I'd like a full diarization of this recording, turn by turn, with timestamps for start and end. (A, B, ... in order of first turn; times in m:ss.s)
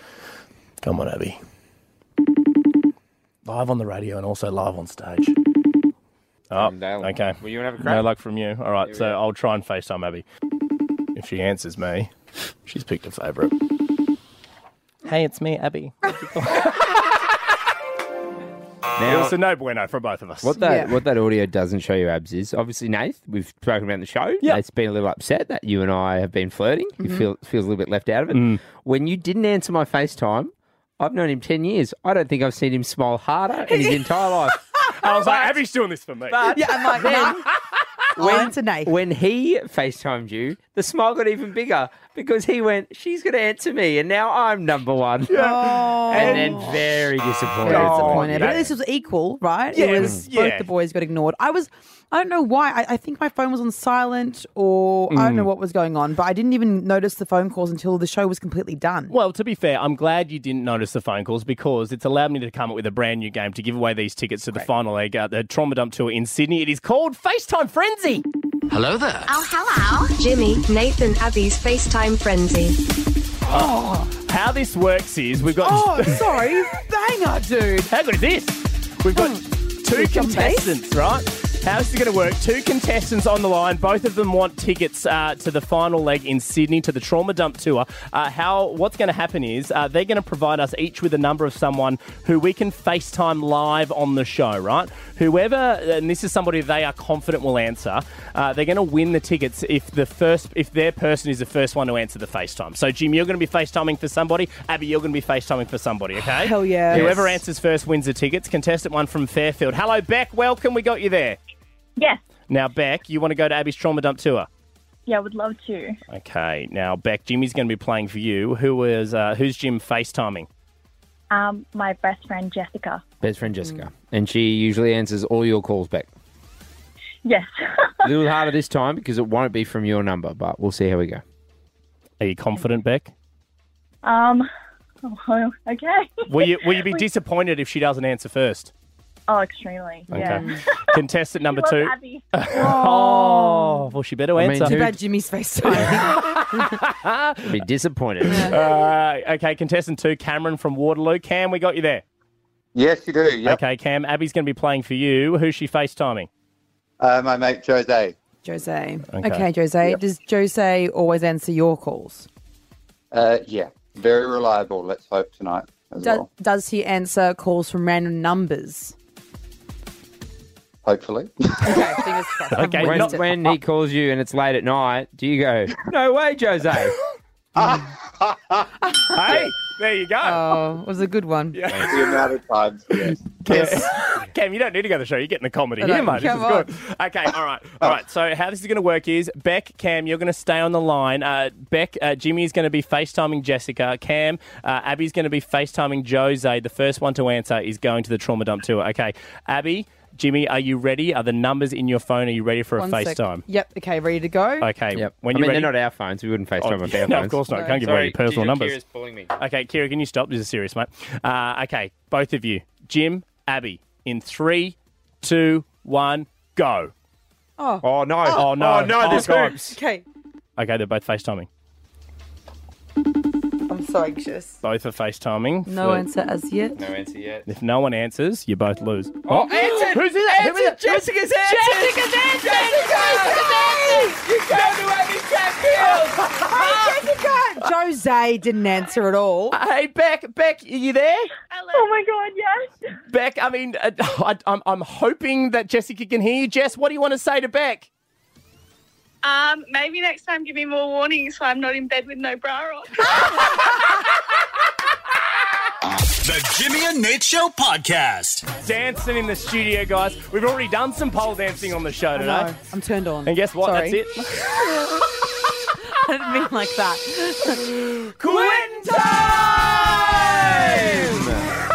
0:00.8-0:01.4 A
0:03.5-0:05.3 A
0:06.5-0:10.2 A
0:06.5-0:08.0 B
0:08.8-0:09.2 B
0:11.2-0:12.1 A
0:12.7-0:13.5 A
0:15.0-0:17.2 A
0:19.0-0:19.4 B
0:19.0-0:20.6 A
0:20.4-0:34.6 B
0:20.6-0:20.9 C
0:28.3-0:28.6 A
0:33.7-0:34.0 C
0:34.9-0:35.4 C
0:35.0-0:36.6 A
0:36.3-0:37.4 B
0:36.5-0:37.5 C
0:38.2-0:38.9 C
0:38.2-0:48.6 B
0:45.3-0:46.8 C
0:45.3-0:46.8 A
0:47.6-0:59.1 C
0:47.7-0:48.7 A
0:49.7-0:50.7 A
0:55.1-0:55.5 B
0:59.1-1:08.2 A
1:08.8-1:09.3 B
1:10.2-1:12.8 D
1:13.5-1:14.1 C
1:13.5-1:16.2 A
1:15.6-1:17.9 C
1:17.9-1:51.4 A
1:19.2-1:19.4 C
1:20.0-1:20.7 C
1:46.4-1:47.2 C
1:46.9-1:47.4 B
1:52.5-1:54.5 A
1:55.1-1:55.9 E
1:56.1-2:00.5 A
2:01.3-2:03.0 E
2:03.2-2:06.1 B
2:08.0-2:11.2 B
2:12.2-2:13.1 A
2:15.3-2:15.9 E
2:16.3-2:18.7 A
2:19.4-2:20.3 E
2:20.1-2:20.6 C
2:20.1-2:24.8 A
2:21.6-2:21.9 E
2:22.5-2:23.8 C
2:24.4-2:25.0 B
2:24.6-2:26.8 C
2:25.7-2:27.6 A
2:27.4-2:28.6 B
2:28.2-2:28.6 C
2:28.4-2:32.0 A
2:32.8-2:33.6 F
2:33.4-2:36.3 A
2:37.0-2:38.2 F
2:38.4-2:42.3 C
2:39.1-2:39.5 A
2:43.1-2:46.3 F
2:46.0-2:49.0 C
2:50.8-2:51.9 F
2:51.6-2:53.3 C
2:52.5-2:53.2 A
2:52.8-2:57.0 B
2:57.6-2:58.7 F
2:58.8-2:59.3 C
2:59.1-3:00.6 A
3:00.2-3:01.6 C
3:01.5-3:02.3 A
3:01.8-3:03.4 F
3:03.2-3:23.4 A
3:03.5-3:03.8 C
3:05.8-3:06.7 C
3:22.8-3:24.7 C
3:24.6-3:25.7 A
3:24.9-3:29.3 B
3:26.6-3:28.8 A
3:27.5-3:27.8 C
3:29.4-3:36.9 A
3:37.6-3:40.0 C
3:37.8-3:39.8 B
3:38.3-3:39.7 A
3:40.6-3:41.5 A
3:43.7-3:44.6 C
3:44.6-3:46.0 A
3:45.7-3:46.8 C
3:46.8-3:47.5 B
3:47.5-3:51.0 A
3:49.3-3:57.0 B
3:49.3-3:54.2 C
3:55.8-3:59.6 C
3:59.5-4:01.3 A
4:01.5-4:02.4 E
4:03.1-4:07.9 A
4:09.2-4:13.1 E
4:16.2-4:18.6 G
4:18.6-4:22.6 A
4:22.2-4:24.1 C
4:23.3-4:24.5 A
4:24.6-4:25.0 C
4:25.8-4:31.3 C
4:28.2-4:31.5 B